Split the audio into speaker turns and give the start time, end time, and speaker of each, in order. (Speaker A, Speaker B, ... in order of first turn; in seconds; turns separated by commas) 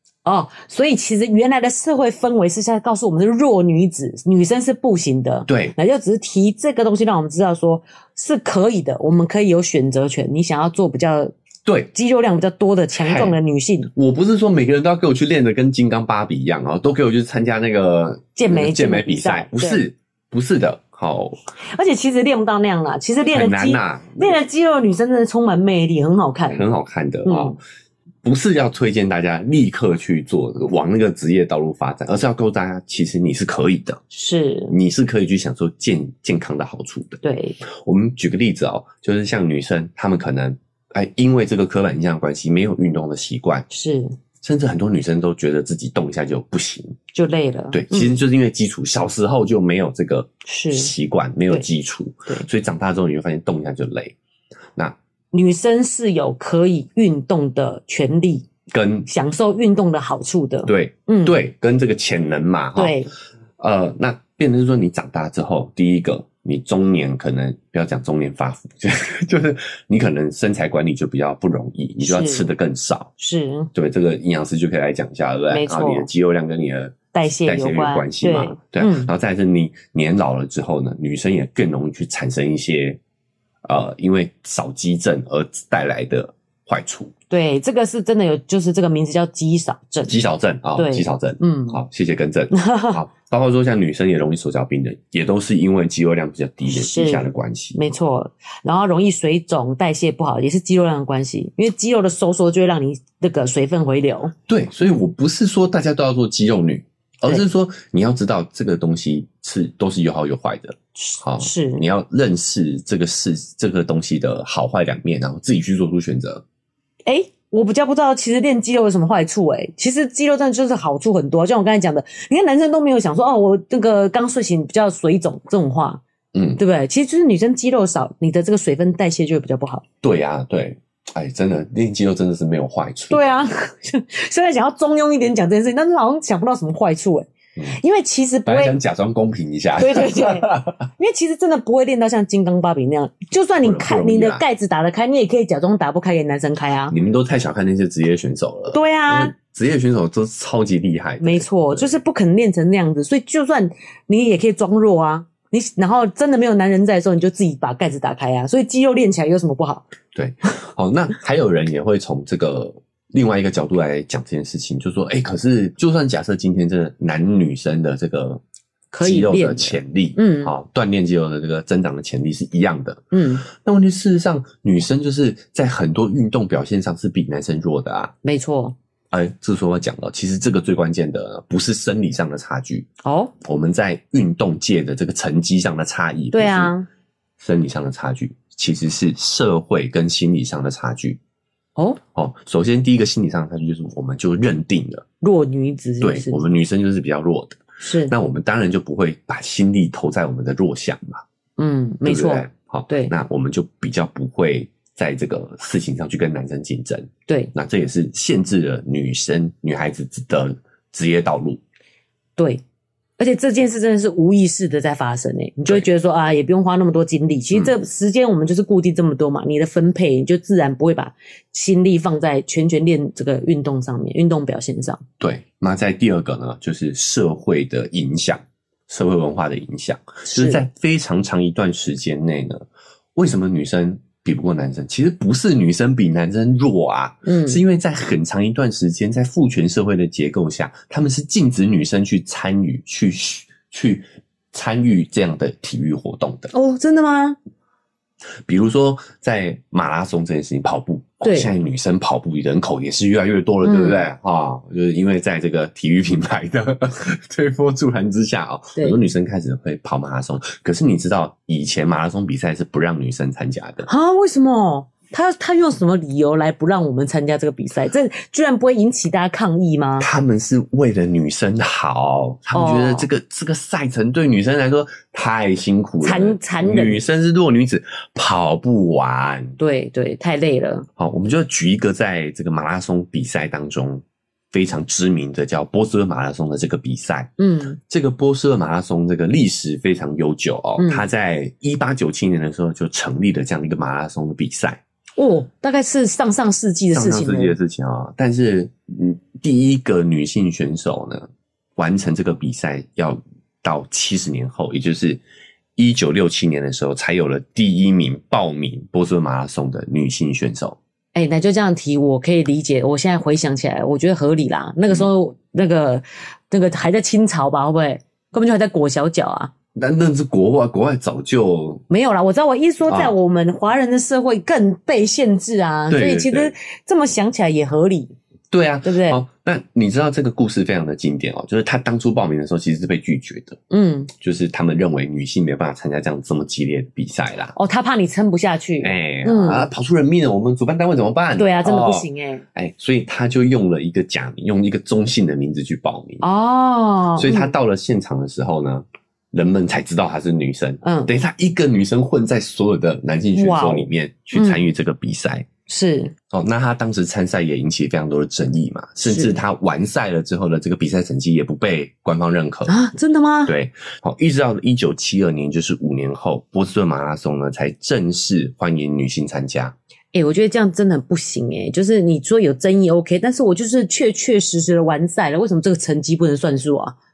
Speaker A: 0.2-11.3, Speaker B: 5.5-5.7, Speaker B: 11.7-11.9, Speaker A: 11.9-13.9, Speaker B: 12.9-13.4, Speaker B: 13.9-21.4, Speaker A: 18.4-19.8, Speaker A: 21.6-26.6, Speaker B: 23.3-24.4, Speaker B: 26.5-27.6, Speaker A: 27.2-27.6, Speaker B: 28.2-34.0, Speaker A: 34.1-34.7, Speaker B: 34.7-43.6, Speaker A: 37.2-37.6, Speaker A: 43.7-44.1, Speaker B: 44.4-47.0, Speaker A: 47.1-48.2, Speaker B: 47.7-54.1, Speaker A: 50.5-50.9, Speaker A: 55.3-58.5, Speaker B: 58.7-59.1, Speaker A: 59.1-61.4, Speaker B: 60.7-63.0, Speaker A: 62.8-63.1, Speaker B: 63.6-73.1, Speaker A: 72.0-72.5, Speaker A: 73.2-73.7, Speaker B: 73.7-83.0, Speaker A: 75.5-76.1, Speaker A: 77.1-79.1, Speaker B: 83.6-87.1, Speaker A: 87.3-90.2, Speaker B: 90.1-97.8, Speaker A: 90.8-91.8, Speaker A: 92.5-93.0, Speaker A: 96.7-104.3, Speaker B: 104.5-116.4, Speaker A: 111.0-111.8, Speaker A: 117.1-126.0, Speaker B: 126.3-126.6, Speaker A: 126.6-129.8, Speaker B: 130.0-133.3, Speaker A: 133.1-138.8, Speaker B: 138.4-140.8, Speaker A: 139.8-146.9, Speaker B: 143.6-144.4, Speaker B: 146.9-152.0, Speaker A: 148.7-149.3, Speaker A: 151.2-159.9, Speaker B: 160.1-168.4, Speaker A: 168.9-170.5, Speaker B: 169.0-178.1, Speaker A: 173.1-173.4, Speaker A: 178.2-178.7, Speaker B: 179.1-182.9, Speaker A: 183.0-183.3, Speaker B: 183.4-186.7, Speaker A: 186.3-186.9, Speaker B: 187.4-191.2, Speaker B: 192.1-195.1, Speaker A: 195.2-196.4, Speaker B: 196.0-201.2, Speaker A: 197.8-198.1, Speaker A: 201.6-203.1, Speaker B: 202.0-211.6, Speaker A: 207.3-207.5, Speaker A: 212.4-212.6, Speaker A: 213.2-225.0, Speaker B: 225.2-246.5, Speaker A: 230.2-230.6, Speaker A: 237.2-237.6, Speaker A: 246.5-247.4, Speaker B: 248.4-263.9, Speaker A: 251.2-251.5, Speaker A: 253.6-254.1, Speaker A: 263.9-270.1, Speaker B: 270.0-279.6, Speaker A: 272.5-273.1, Speaker A: 276.0-277.0, Speaker A: 279.6-280.9, Speaker B: 281.0-287.3, Speaker A: 287.4-287.8, Speaker B: 287.9-294.8, Speaker A: 290.8-291.0, Speaker A: 295.2-297.6, Speaker B: 296.9-305.2, Speaker B: 305.8-310.8, Speaker A: 311.1-319.5, Speaker B: 319.7-321.8, Speaker A: 321.9-328.1, Speaker B: 322.9-323.1, Speaker B: 325.9-326.5, Speaker B: 328.5-333.6, Speaker A: 328.8-329.2, Speaker A: 333.7-334.1, Speaker B: 334.2-337.6, Speaker A: 337.6-339.7, Speaker B: 338.8-346.2, Speaker A: 341.4-342.4, Speaker A: 346.2-347.6, Speaker B: 347.1-355.5, Speaker A: 350.8-351.1, Speaker A: 353.3-354.6, Speaker A: 355.7-356.1, Speaker B: 356.3-362.7, Speaker A: 359.0-359.4, Speaker A: 362.7-363.6, Speaker B: 363.4-369.7, Speaker A: 370.1-376.9